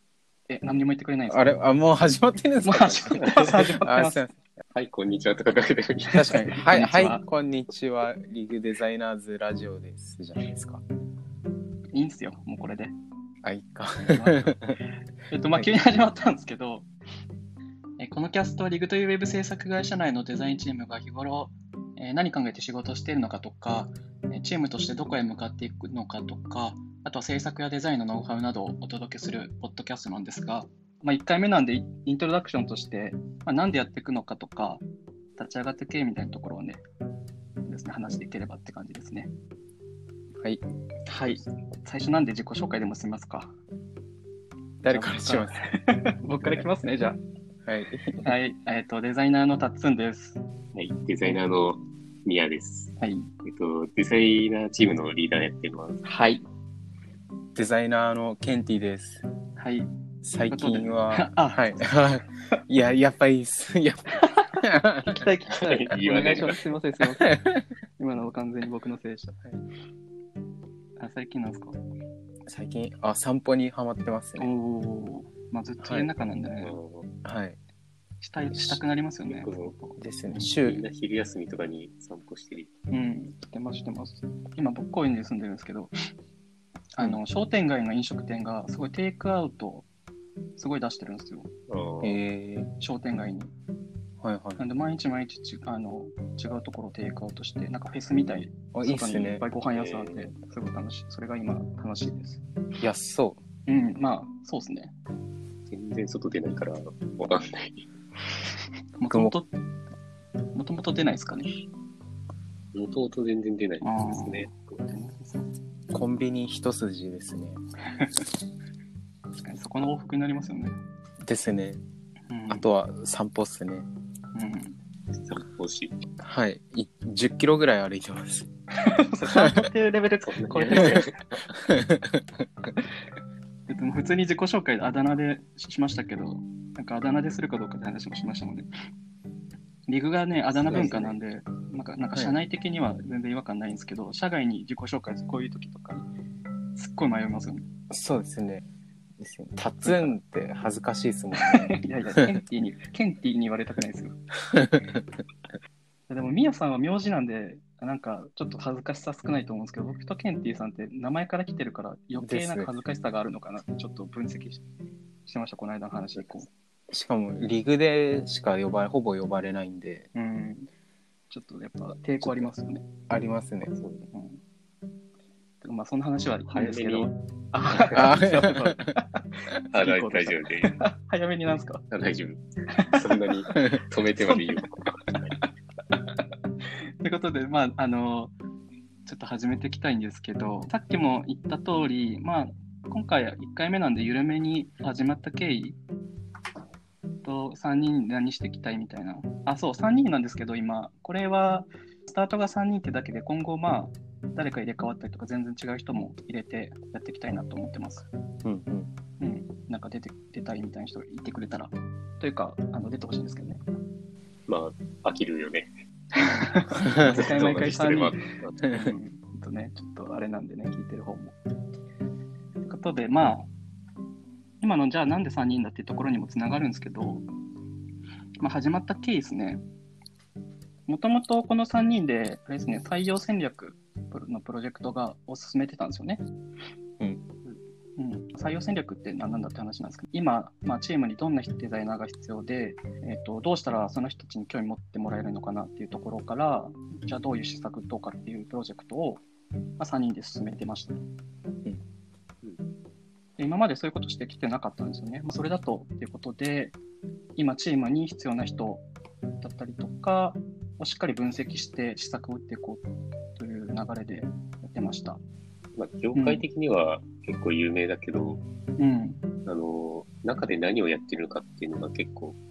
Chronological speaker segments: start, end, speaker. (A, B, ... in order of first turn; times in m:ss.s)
0:00.5-0:01.5 A
0:01.3-0:04.3 B
0:02.6-0:04.2 A
0:03.1-0:03.6 C
0:04.7-0:06.4 C
0:06.1-0:07.2 A
0:06.1-0:10.8 B
0:11.9-0:12.9 A
0:13.4-0:14.8 B
0:14.1-0:14.6 A
0:15.3-0:16.9 A
0:18.0-0:34.8 A
0:35.4-0:36.8 A
0:37.6-0:39.3 A
0:41.0-0:43.5 A
0:44.8-0:45.6 B
0:44.8-0:47.2 A
0:47.6-0:48.4 B
0:48.2-0:50.4 A
0:50.7-0:56.0 C
0:53.0-0:53.3 A
0:56.0-0:56.4 A
0:57.5-0:59.2 B
0:59.6-0:59.9 A
1:00.2-1:05.3 B
1:00.5-1:02.1 A
1:04.2-1:09.4 A
1:05.6-1:06.7 C
1:07.2-1:07.5 B
1:11.0-1:11.8 A
1:12.5-1:14.5 B
1:14.4-1:16.8 A
1:15.8-1:16.1 B
1:16.6-1:17.1 C
1:17.2-1:17.6 B
1:18.2-1:20.0 A
1:18.5-1:18.8 B
1:19.3-1:19.7 C
1:20.0-1:20.8 B
1:20.5-1:22.7 C
1:22.9-1:25.9 A
1:27.0-1:29.9 A
1:30.6-1:31.5 A
1:31.7-1:32.2 C
1:32.0-1:32.7 B
1:32.8-1:33.5 A
1:34.2-1:34.7 B
1:34.6-1:42.4 A
1:38.7-1:39.4 B
1:39.7-1:40.3 C
1:42.8-1:43.4 B
1:43.6-1:44.9 A
1:45.7-1:47.8 C
1:49.0-1:49.5 A
1:49.1-1:49.4 B
1:50.5-1:51.5 A
1:52.7-1:54.6 C
1:53.8-1:55.5 A
1:55.9-1:57.6 B
1:57.9-1:58.2 A
1:59.4-2:00.7 A
2:01.2-2:01.8 B
2:02.3-2:02.7 A
2:02.5-2:03.9 B
2:04.3-2:04.8 A
2:05.2-2:06.0 C
2:06.2-2:08.5 B
2:08.8-2:11.2 A
2:09.3-2:09.6 B
2:10.2-2:11.5 C
2:10.8-2:11.0 B
2:11.7-2:12.2 B
2:13.7-2:18.7 A
2:19.9-2:26.0 A
2:20.5-2:21.2 C
2:26.8-2:27.6 A
2:27.9-2:28.6 B
2:29.2-2:32.4 B
2:29.8-2:30.2 A
2:31.4-2:34.2 A
2:34.6-2:35.0 B
2:36.1-2:44.6 A
2:42.2-2:42.7 B
2:45.2-2:46.5 A
2:46.9-2:50.1 B
2:50.1-2:50.7 A
2:51.3-2:52.8 A
2:53.1-2:53.7 B
2:53.7-2:54.1 C
2:54.1-2:54.4 A
2:55.6-3:01.8 A
2:56.5-2:57.1 C
2:57.9-2:58.9 B
2:59.7-3:00.8 C
3:01.9-3:05.4 C
3:02.7-3:03.6 A
3:03.5-3:03.8 B
3:05.9-3:06.2 A
3:07.0-3:08.3 A
3:09.0-3:15.8 A
3:17.2-3:28.1 A
3:28.4-3:28.9 B
3:29.2-3:33.6 A
3:34.5-3:35.7 C
3:36.2-3:41.3 A
3:36.8-3:37.1 B
3:36.9-3:38.6 C
3:42.6-3:43.5 A
3:44.6-3:47.2 A
3:48.4-3:49.6 A
3:50.9-3:56.2 A
3:58.0-4:09.2 A
4:09.8-4:11.0 A
4:13.4-4:16.8 A
4:17.4-4:18.8 A
4:19.4-4:22.8 A
4:23.4-4:25.2 A
4:25.7-4:28.4 C
4:26.1-4:26.4 A
4:28.8-4:29.2 A
4:29.4-4:32.4 C